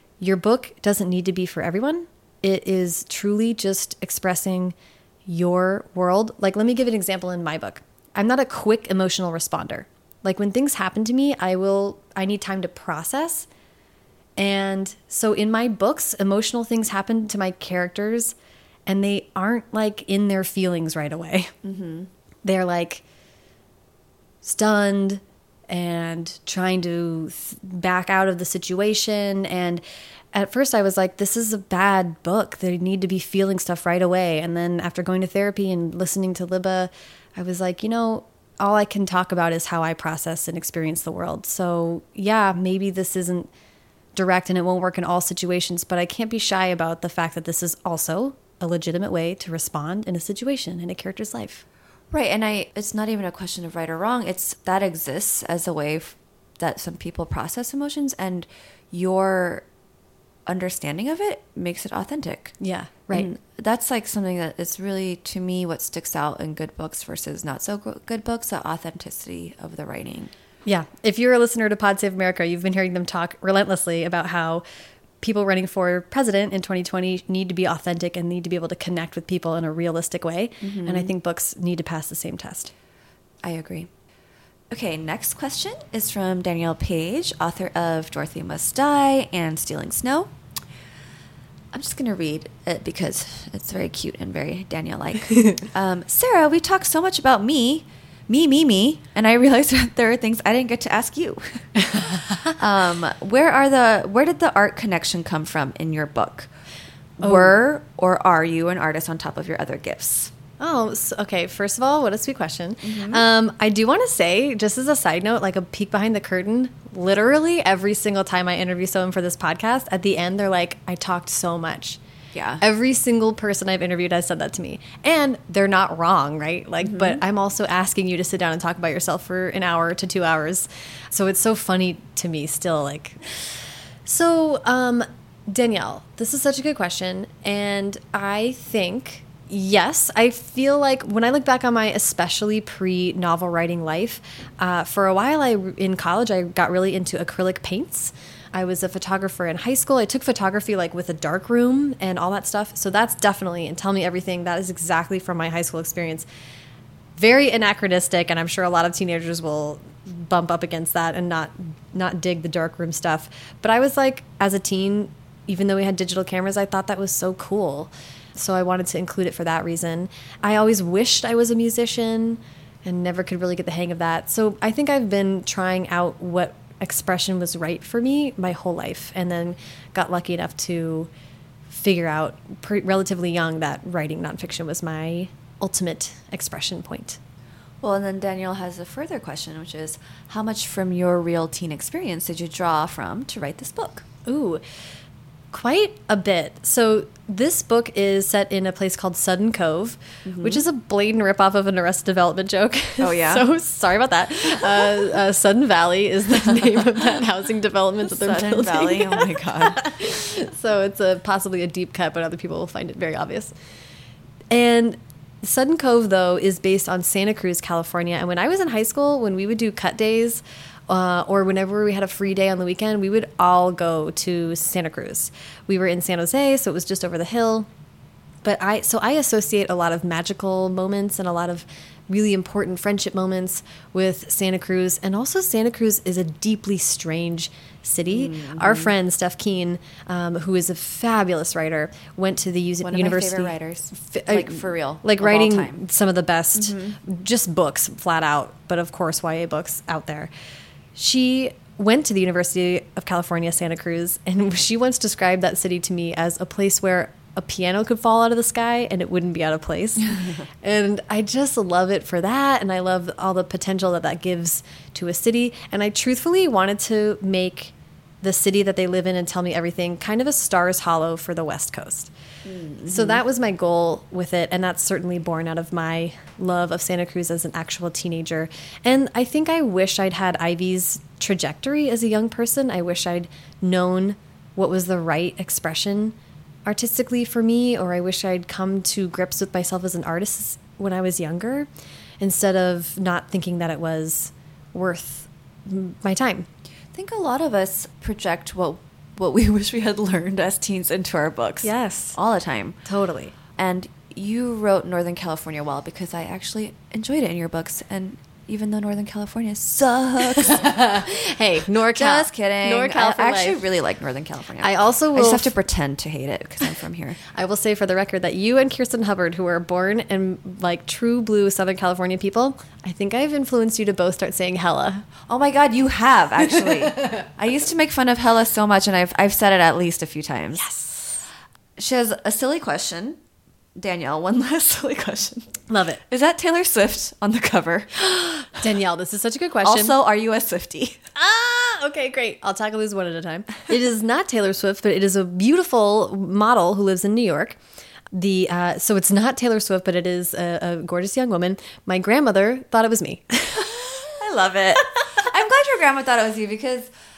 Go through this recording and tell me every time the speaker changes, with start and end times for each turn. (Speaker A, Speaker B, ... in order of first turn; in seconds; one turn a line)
Speaker A: 0.2-4.8
Speaker A: 5.3-13.5
Speaker A: 14.4-18.4
Speaker A: 18.9-21.5
Speaker B: 21.6-22.1
Speaker A: 22.4-23.0
Speaker A: 24.4-43.5
Speaker A: 44.1-51.6
Speaker B: 52.1-59.6
Speaker B: 60.5-62.6
Speaker A: 62.6-63.3
Speaker B: 63.1-70.3
Speaker A: 70.7-74.6
Speaker A: 75.2-82.7
Speaker B: 80.6-81.1
Speaker B: 83.4-83.9
Speaker B: 84.7-90.3
Speaker B: 91.7-106.5
Speaker B: 107.2-110.3
Speaker A: 107.2-107.5
Speaker A: 110.6-122.0
Speaker B: 112.8-113.2
Speaker B: 122.3-122.6
Speaker A: 122.6-156.3
Speaker B: 126.8-127.2
Speaker A: 157.2-181.1
Speaker A: 181.7-187.2
Speaker B: 187.8-194.1
Speaker A: 194.3-194.6
Speaker A: 195.5-213.5
Speaker B: 200.2-200.6
Speaker B: 203.0-203.5
Speaker B: 208.1-209.9
Speaker A: 214.5-227.7
Speaker A: 228.4-250.3
Speaker B: 238.1-238.9
Speaker B: 242.8-245.8
Speaker B: 246.6-247.0
Speaker A: 250.9-272.1
Speaker B: 260.0-260.4
Speaker B: 272.4-273.2
Speaker A: 272.9-291.7
Speaker A: 292.2-296.5
Speaker B: 296.9-302.8
Speaker A: 301.6-302.2
Speaker A: 302.9-303.3
Speaker B: 303.6-310.7
Speaker A: 310.5-313.6
Speaker B: 311.9-317.2
Speaker A: 314.6-315.5
Speaker A: 317.2-325.1
Speaker B: 325.2-330.7
Speaker A: 330.6-331.2
Speaker B: 331.8-333.2
Speaker B: 333.8-338.6
Speaker A: 335.7-336.0
Speaker A: 338.5-339.9
Speaker B: 339.6-341.0
Speaker A: 341.1-347.6
Speaker A: 348.1-353.8
Speaker B: 353.6-356.9